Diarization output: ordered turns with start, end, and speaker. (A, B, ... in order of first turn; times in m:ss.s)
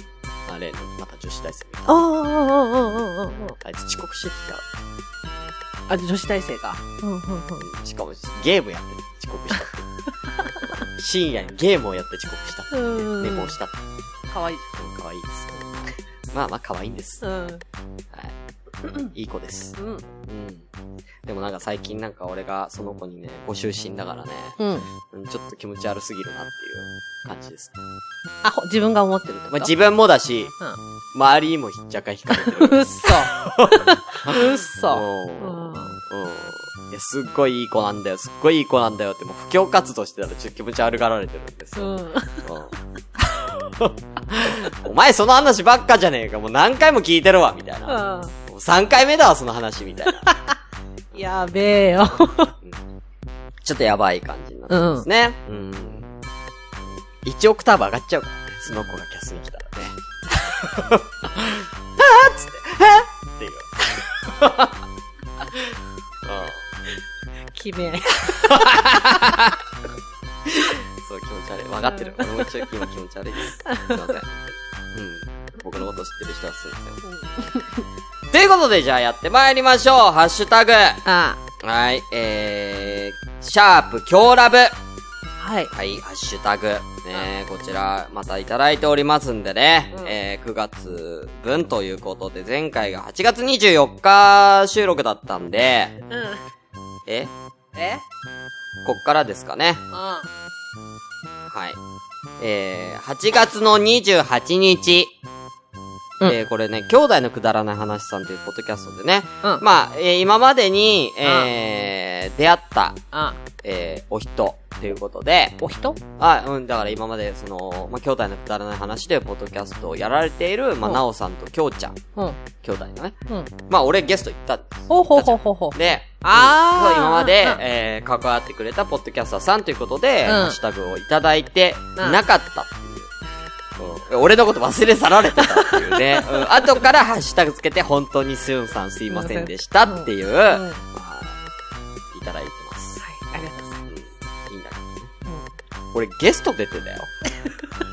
0:00.5-0:02.0 A
0:01.8-0:03.6 B
0:03.6-0:04.8 A
0:05.9-0:07.7 B
0:07.6-0:09.9 A
0:10.7-0:13.7 A
0:12.7-0:13.5 B
0:14.3-0:14.7 B
0:14.8-0:17.2 A
0:17.2-0:17.6 B
0:19.0-0:20.6 A
0:19.8-0:20.0 B
0:21.2-0:24.6 A
0:24.6-0:24.9 B
0:25.1-0:27.8 A
0:28.4-0:29.7 B
0:29.5-0:30.5 A
0:31.1-0:50.3 A
0:32.3-0:35.9 B
0:41.8-0:42.4 B
0:47.9-0:48.3 B
0:50.1-0:50.5 B
0:51.1-0:52.5 B
0:53.6-0:56.1 A
0:54.7-0:55.1 B
0:57.2-1:03.8 A
1:06.2-1:06.6 A
1:07.5-1:09.3 B
1:08.2-1:09.6 A
1:10.5-1:17.0 A
1:11.8-1:12.8 B
1:13.6-1:14.1 B
1:17.0-1:17.8 B
1:18.3-1:21.0 A
1:21.0-1:21.4 B
1:21.6-1:24.8 A
1:25.4-1:25.7 B
1:25.7-1:36.0 A
1:36.1-1:36.4 B
1:37.0-1:37.3 A
1:37.7-1:38.0 B
1:38.8-1:39.8 A
1:39.9-1:40.3 B
1:41.5-1:41.8 A
1:42.4-1:45.2 A
1:46.2-1:53.0 A
1:51.2-1:51.5 B
1:53.1-1:53.4 B
1:53.6-1:55.6 A
1:55.6-1:56.0 B
1:56.2-2:02.0 A
2:02.6-2:13.1 A
2:04.9-2:07.6 B
2:10.2-2:10.6 B
2:13.8-2:21.4 A
2:15.4-2:16.8 B
2:19.1-2:20.8 B
2:22.1-2:23.0 A
2:23.0-2:23.8 B
2:23.9-2:25.1 A
2:25.9-2:27.1 A